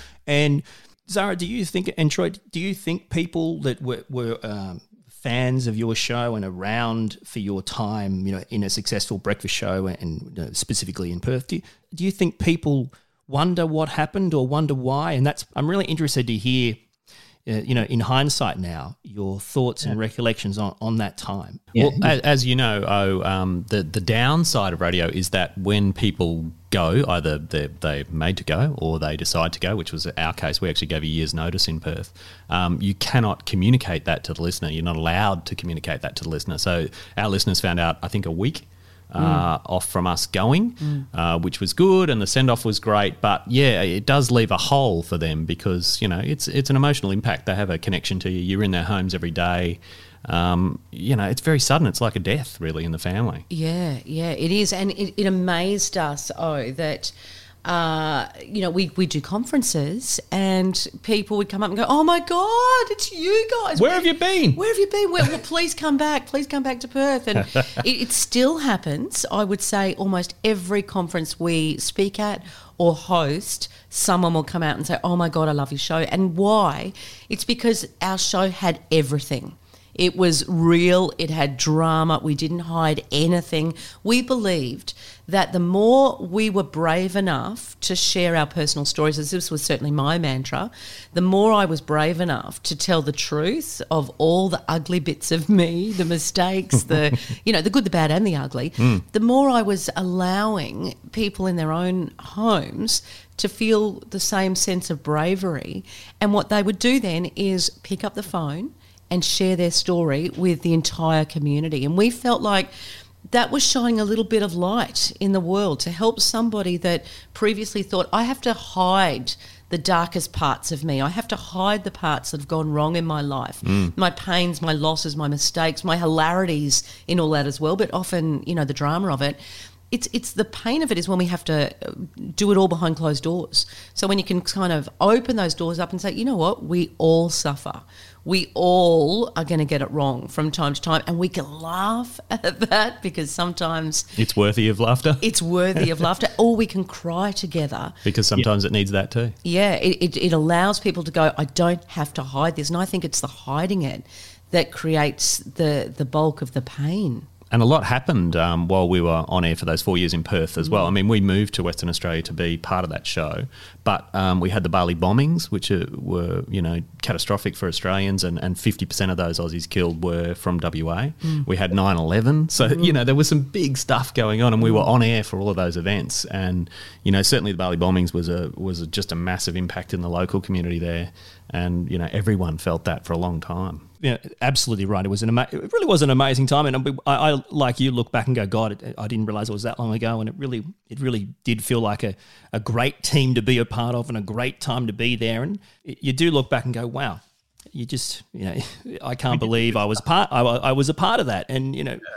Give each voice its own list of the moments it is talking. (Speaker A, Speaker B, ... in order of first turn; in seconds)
Speaker A: 0.3-16.8, 17.5-22.1, 184.0-197.2, 197.7-202.0
Speaker B: 21.8-53.5, 63.8-64.6, 123.7-123.9, 144.2-145.9, 148.1-149.4, 157.5-183.8
Speaker C: 39.2-39.5, 53.5-57.1, 57.6-112.7, 113.3-129.4, 129.9-144.1, 145.2-148.0, 149.4-157.3